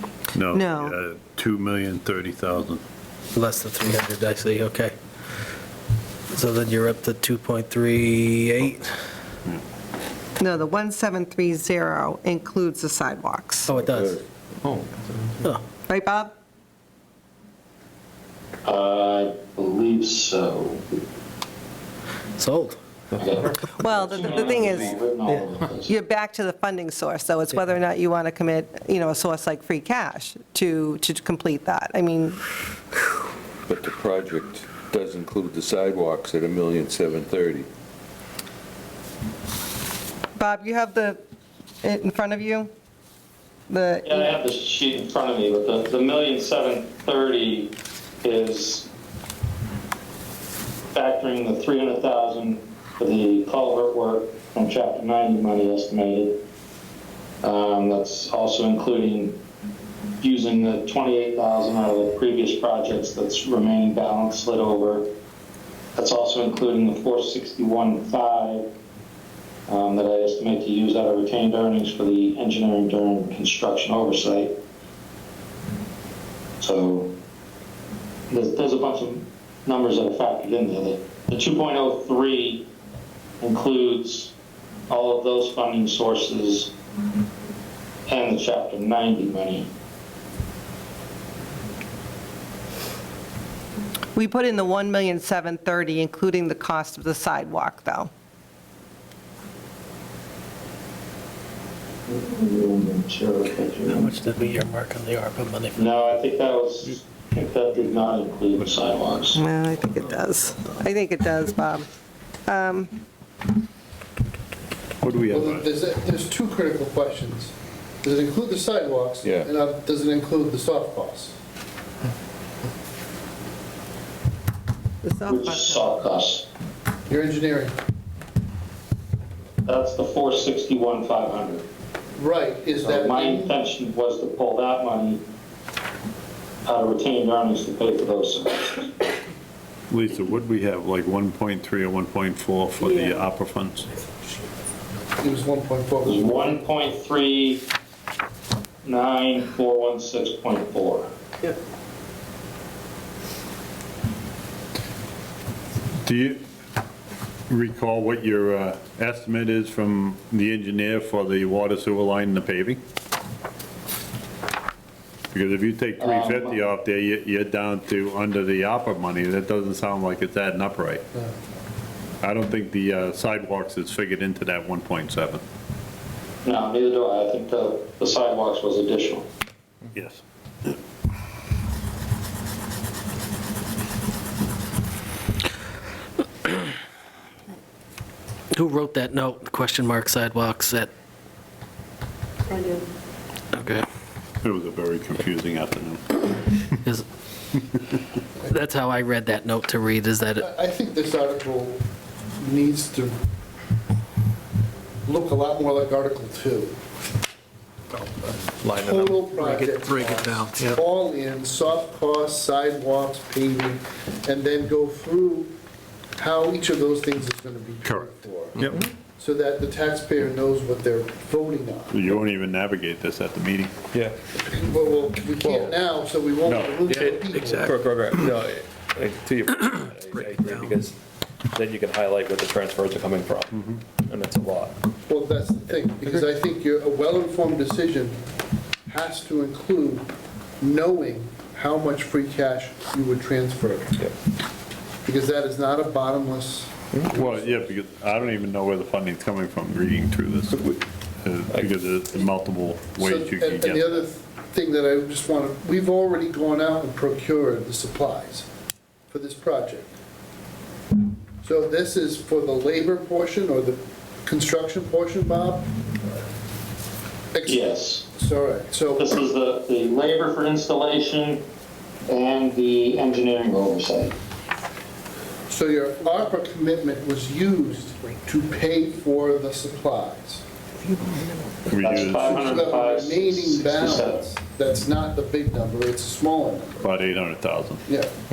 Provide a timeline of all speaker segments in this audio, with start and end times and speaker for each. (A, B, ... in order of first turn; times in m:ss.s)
0:00.3-0:02.8 A
0:00.5-0:01.0 B
0:03.4-0:05.0 C
0:06.3-0:08.9 C
0:10.4-0:13.7 B
0:13.7-0:14.2 C
0:13.8-0:14.2 D
0:15.9-0:16.3 B
0:18.6-0:20.8 E
0:22.4-0:22.8 C
0:23.2-0:25.9 E
0:23.8-0:24.9 B
0:24.1-0:25.0 D
0:25.9-0:32.4 B
0:33.7-0:37.7 D
0:40.4-0:41.2 B
0:41.8-0:42.7 B
0:43.7-0:44.4 B
0:44.0-0:48.9 E
0:50.9-0:56.4 E
0:57.4-0:59.4 E
1:00.2-1:05.1 E
1:06.0-1:08.7 E
1:09.7-1:14.5 E
1:16.6-1:17.1 E
1:18.3-1:22.7 E
1:23.4-1:24.3 E
1:24.9-1:26.7 E
1:28.1-1:29.7 E
1:34.2-1:38.1 B
1:42.1-1:44.2 E
1:43.9-1:45.8 C
1:45.8-1:49.4 E
1:49.4-1:51.9 B
1:52.5-1:52.9 B
1:55.0-1:55.7 A
1:55.3-2:01.4 F
1:59.2-1:59.5 D
2:05.0-2:05.9 B
2:05.3-2:06.4 E
2:07.1-2:07.8 F
2:09.6-2:11.6 E
2:12.2-2:13.6 F
2:12.8-2:15.2 E
2:16.6-2:18.9 E
2:19.9-2:23.9 A
2:25.2-2:26.6 F
2:26.0-2:27.7 E
2:28.8-2:31.1 E
2:36.0-2:36.4 A
2:37.5-2:42.8 A
2:45.3-2:51.0 A
2:46.0-2:46.6 E
2:52.2-2:55.4 A
2:56.4-2:59.3 E
2:59.9-3:00.7 A
3:08.5-3:10.9 C
3:13.5-3:13.8 C
3:14.4-3:16.6 A
3:18.5-3:20.4 C
3:20.4-3:21.8 F
3:22.4-3:23.2 F
3:25.1-3:26.8 F
3:28.0-3:29.4 G
3:28.7-3:35.5 F
3:36.2-3:38.6 F
3:37.8-3:38.8 A
3:38.6-3:38.9 G
3:39.2-3:41.9 F
3:41.9-3:43.8 A
3:44.3-3:47.8 F
3:45.4-3:45.7 G
3:46.5-3:46.8 A
3:46.9-3:51.0 G
3:51.5-3:54.8 G
3:55.1-3:58.2 F
3:58.9-4:00.1 F
4:00.6-4:04.0 F
4:05.0-4:06.7 F
4:07.1-4:14.0 A
4:13.0-4:18.5 F
4:19.1-4:19.9 F
4:21.4-4:25.7 F
4:27.3-4:29.2 F
4:27.5-4:28.0 E
4:29.0-4:31.4 E
4:32.1-4:34.2 E
4:35.5-4:40.4 F
4:41.7-4:42.5 A
4:41.8-4:44.2 E
4:42.4-4:46.8 F
4:46.8-4:47.8 A